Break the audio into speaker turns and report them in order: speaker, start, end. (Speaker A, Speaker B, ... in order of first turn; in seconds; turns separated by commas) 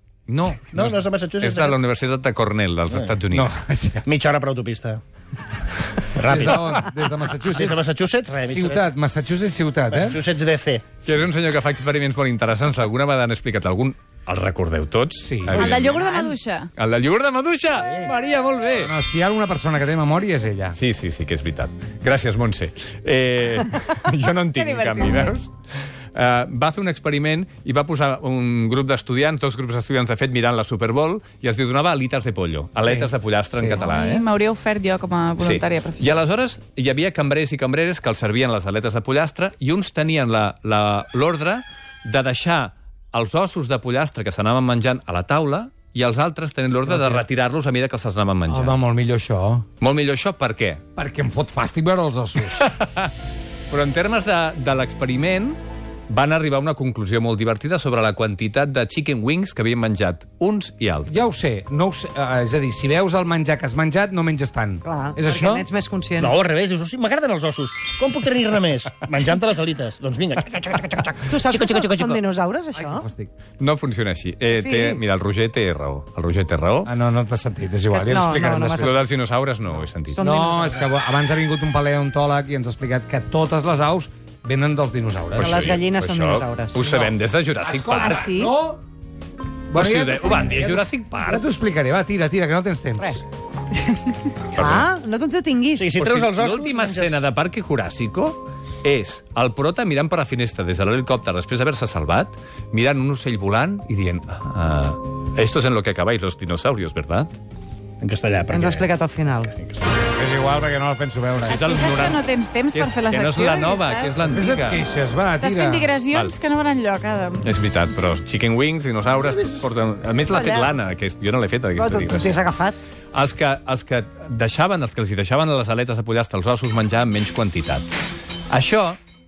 Speaker A: 0.3-3.5, Speaker B: 0.7-1.8, Speaker B: 2.9-3.1, Speaker C: 3.3-4.0, Speaker B: 4.0-5.0, Speaker B: 6.1-6.8, Speaker C: 6.3-7.9, Speaker A: 6.4-6.6, Speaker B: 7.4-8.9, Speaker C: 8.4-10.2, Speaker B: 9.9-10.9, Speaker A: 11.0-18.9, Speaker C: 15.2-15.8, Speaker D: 15.5-16.7, Speaker B: 17.8-18.1, Speaker C: 18.8-20.8, Speaker A: 20.7-34.2, Speaker D: 24.5-25.3, Speaker C: 32.9-33.8, Speaker D: 33.7-36.1, Speaker A: 35.4-48.8, Speaker C: 46.8-47.2, Speaker C: 48.5-49.6, Speaker A: 49.8-50.8, Speaker C: 51.0-52.6, Speaker A: 52.5-53.1, Speaker A: 53.7-55.6, Speaker A: 56.1-61.1, Speaker C: 61.1-65.7, Speaker E: 64.8-66.3, Speaker B: 66.2-72.2, Speaker E: 71.3-73.1, Speaker C: 72.7-73.3, Speaker A: 73.6-76.9, Speaker E: 74.5-75.0, Speaker C: 76.8-79.0, Speaker E: 77.9-78.9, Speaker A: 78.8-80.2, Speaker E: 80.1-80.8, Speaker C: 80.2-85.7, Speaker A: 85.3-88.2, Speaker E: 85.4-87.1, Speaker C: 87.6-88.8, Speaker D: 88.0-88.5, Speaker C: 89.7-93.2, Speaker A: 89.7-91.4, Speaker A: 94.5-94.9, Speaker E: 94.5-96.0, Speaker B: 95.8-97.2, Speaker A: 96.0-107.3, Speaker B: 108.0-110.0, Speaker E: 108.5-109.5, Speaker C: 110.1-111.6, Speaker D: 111.5-114.5, Speaker A: 111.5-114.8, Speaker C: 114.3-115.9, Speaker D: 115.4-117.5, Speaker A: 117.4-122.4, Speaker E: 120.3-120.7, Speaker E: 121.8-122.8, Speaker A: 123.1-127.9, Speaker A: 128.5-129.0